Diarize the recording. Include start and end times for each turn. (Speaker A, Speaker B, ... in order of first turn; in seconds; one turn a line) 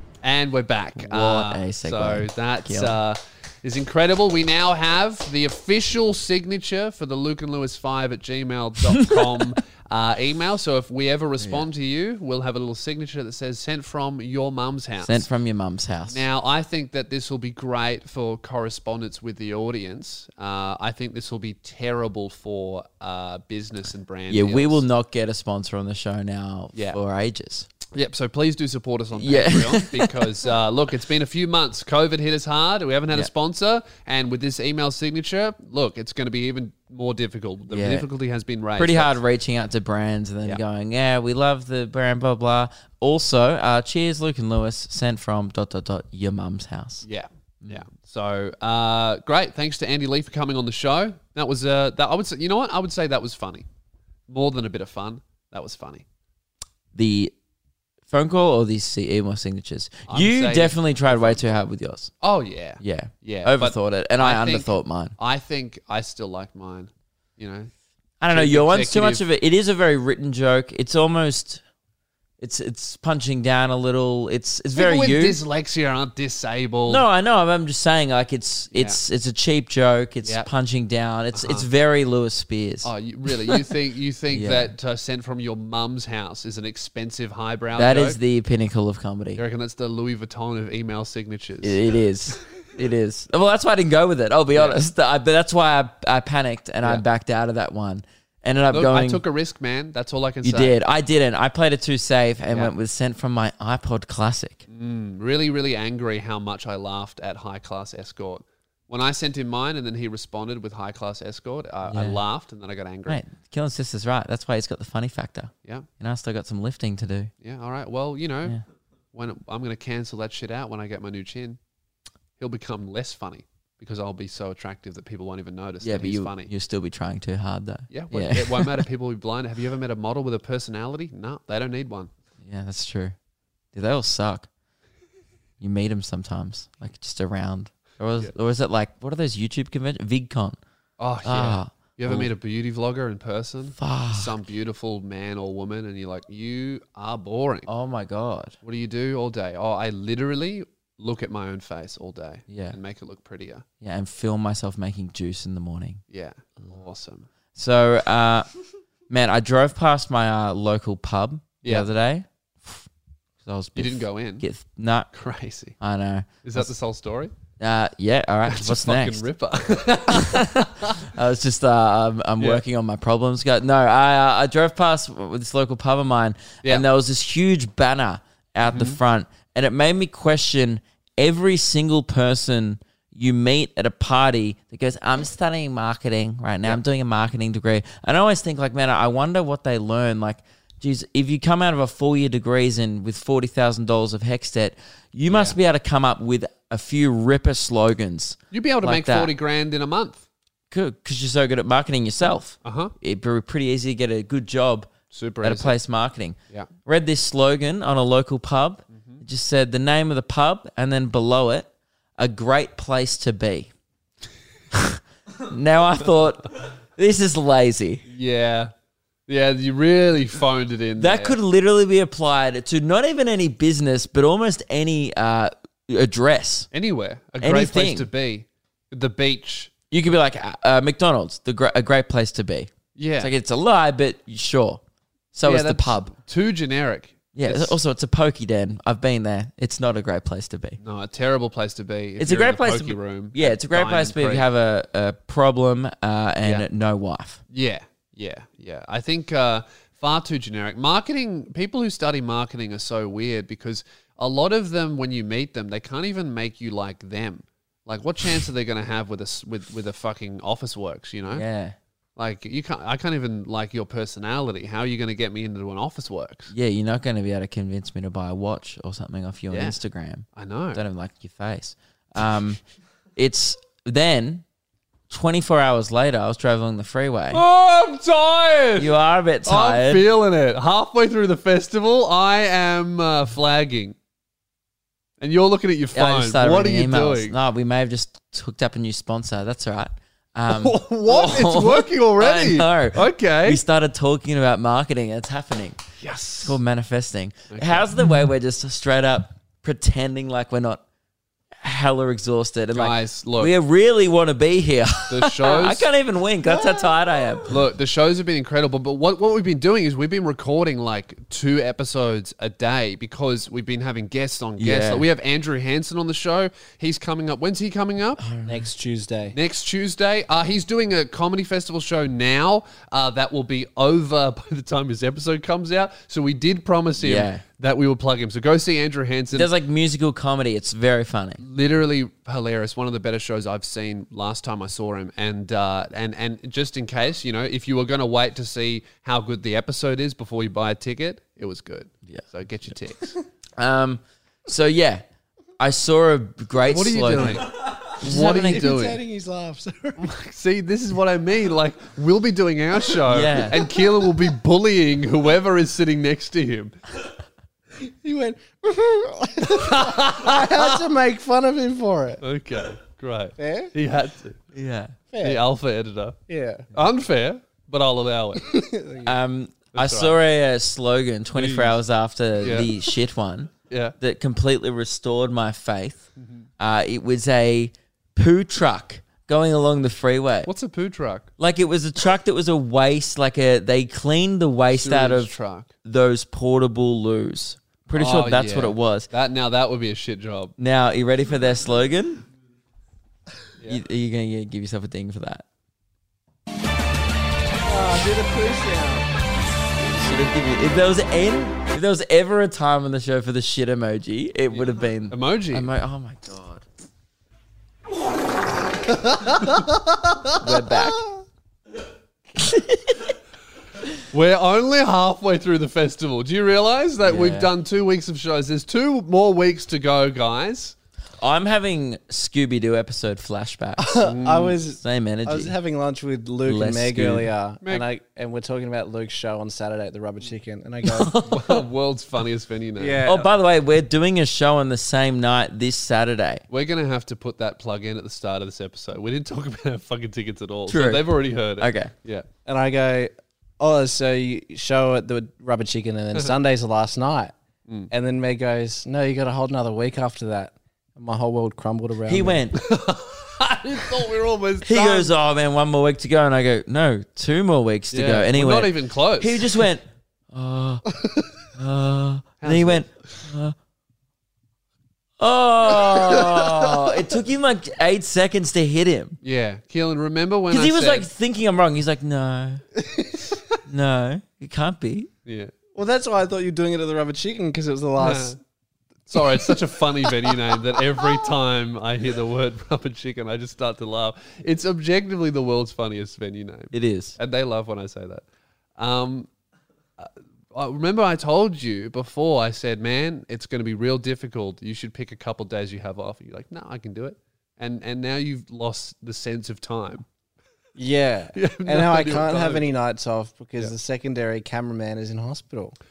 Speaker A: 0.2-15.3
Speaker B: 1.0-3.0
Speaker B: 11.4-11.7
Speaker B: 15.0-16.2
Speaker A: 16.1-24.8
Speaker B: 24.3-27.7
Speaker A: 26.7-27.0
Speaker A: 27.9-39.2
Speaker B: 29.2-30.1
Speaker B: 37.7-38.1
Speaker B: 38.8-47.1
Speaker A: 47.0-53.7
Speaker A: 54.3-56.0
Speaker B: 56.9-57.3
Speaker B: 58.1-62.1
Speaker A: 60.1-61.5
Speaker A: 62.2-67.7
Speaker B: 62.8-65.2
Speaker B: 68.2-71.6
Speaker A: 68.3-69.2
Speaker B: 72.4-75.4
Speaker A: 74.8-77.0
Speaker B: 76.9-82.9
Speaker A: 78.7-79.0
Speaker A: 80.2-80.5
Speaker A: 81.3-81.7
Speaker A: 82.8-88.2
Speaker B: 84.3-84.7
Speaker B: 87.8-89.4
Speaker A: 89.4-91.8
Speaker B: 91.6-99.2
Speaker A: 94.5-94.8
Speaker A: 98.7-100.8
Speaker B: 100.4-104.7
Speaker A: 104.7-113.2
Speaker B: 111.9-112.2
Speaker B: 113.1-117.3
Speaker A: 117.4-118.6
Speaker A: 119.1-121.6
Speaker A: 122.4-126.5
Speaker B: 125.8-128.8
Speaker A: 127.9-132.1
Speaker B: 132.4-133.2
Speaker B: 133.7-134.5
Speaker B: 135.6-140.6
Speaker A: 141.0-147.7
Speaker B: 141.2-142.3
Speaker B: 143.8-144.4
Speaker B: 147.7-148.6
Speaker A: 148.6-153.7
Speaker B: 152.5-152.8
Speaker B: 153.8-156.0
Speaker A: 156.1-157.3
Speaker B: 157.6-158.5
Speaker B: 159.1-162.9
Speaker B: 163.4-165.1
Speaker A: 163.8-164.5
Speaker A: 165.1-165.8
Speaker B: 165.8-166.7
Speaker A: 166.4-167.3
Speaker B: 167.6-169.3
Speaker A: 168.5-171.0
Speaker B: 170.1-199.3
Speaker A: 178.7-179.0
Speaker A: 195.3-195.6
Speaker A: 198.5-200.2
Speaker B: 200.7-213.7
Speaker A: 202.6-202.9
Speaker A: 205.1-205.8
Speaker A: 208.9-209.2
Speaker B: 214.7-218.0
Speaker A: 218.1-218.7
Speaker A: 219.3-221.4
Speaker B: 221.0-226.7
Speaker A: 226.7-229.7
Speaker B: 227.4-228.1
Speaker B: 229.9-234.8
Speaker A: 233.0-233.3
Speaker B: 235.3-236.1
Speaker A: 235.4-237.8
Speaker B: 237.3-240.8
Speaker A: 240.8-244.5
Speaker B: 242.2-247.4
Speaker A: 247.5-261.5
Speaker B: 261.3-261.8
Speaker A: 262.2-266.5
Speaker B: 266.5-272.6
Speaker A: 269.5-269.8
Speaker A: 270.4-270.8
Speaker B: 273.2-274.4
Speaker B: 275.1-277.4
Speaker A: 277.3-284.0
Speaker B: 278.8-280.1
Speaker A: 285.2-287.4
Speaker B: 285.9-295.8
Speaker A: 290.5-293.6
Speaker A: 296.0-296.6
Speaker B: 296.4-300.8
Speaker A: 297.5-297.8
Speaker B: 301.6-307.6
Speaker A: 302.7-303.5
Speaker A: 305.1-305.9
Speaker A: 307.5-318.2
Speaker B: 314.6-315.1
Speaker B: 318.2-318.7
Speaker C: 318.5-319.4
Speaker A: 319.3-329.5
Speaker B: 327.0-327.4
Speaker B: 329.3-331.4
Speaker A: 331.4-343.1
Speaker B: 343.6-345.0
Speaker B: 345.6-347.4
Speaker A: 346.6-349.0
Speaker B: 348.0-348.7
Speaker C: 348.1-350.1
Speaker A: 350.0-356.8
Speaker B: 353.1-353.6
Speaker C: 357.8-362.2
Speaker A: 359.4-360.8
Speaker A: 362.2-364.4
Speaker C: 363.4-363.7
Speaker B: 364.5-365.0
Speaker C: 365.1-365.4
Speaker A: 365.2-366.2
Speaker C: 366.3-366.7
Speaker A: 366.7-368.6
Speaker C: 368.4-369.1
Speaker B: 369.0-376.1
Speaker A: 369.7-370.2
Speaker A: 371.4-371.8
Speaker A: 372.4-372.7
Speaker A: 373.7-374.0
Speaker A: 376.2-376.4
Speaker B: 376.6-380.5
Speaker A: 380.5-381.3
Speaker B: 381.4-385.3
Speaker A: 384.7-385.7
Speaker B: 385.8-389.1
Speaker A: 387.9-390.6
Speaker B: 390.6-392.2
Speaker B: 393.7-395.4
Speaker C: 397.7-399.1
Speaker B: 399.8-406.6
Speaker A: 404.5-405.7
Speaker B: 410.4-411.1
Speaker B: 412.4-413.1
Speaker A: 414.1-420.8
Speaker B: 417.0-417.5
Speaker B: 421.2-424.0
Speaker C: 423.8-431.2
Speaker A: 424.0-424.6
Speaker B: 424.7-425.5
Speaker B: 426.4-427.3
Speaker B: 431.0-431.2
Speaker A: 431.2-433.2
Speaker C: 432.8-433.3
Speaker B: 433.0-436.4
Speaker A: 436.5-442.3
Speaker B: 440.7-441.9
Speaker C: 442.4-447.3
Speaker C: 447.9-452.4
Speaker B: 452.1-452.6
Speaker A: 452.6-455.1
Speaker B: 454.6-460.9
Speaker A: 457.9-459.6
Speaker B: 461.6-463.6
Speaker A: 462.4-462.9
Speaker B: 465.2-469.2
Speaker A: 469.2-471.1
Speaker B: 470.5-472.6
Speaker C: 472.9-473.2
Speaker B: 473.7-475.1
Speaker A: 475.3-475.5
Speaker C: 475.8-478.4
Speaker A: 478.0-478.4
Speaker A: 479.1-488.2
Speaker B: 486.7-487.2
Speaker A: 488.8-489.3
Speaker A: 490.0-500.0
Speaker C: 500.8-505.8
Speaker A: 501.3-502.7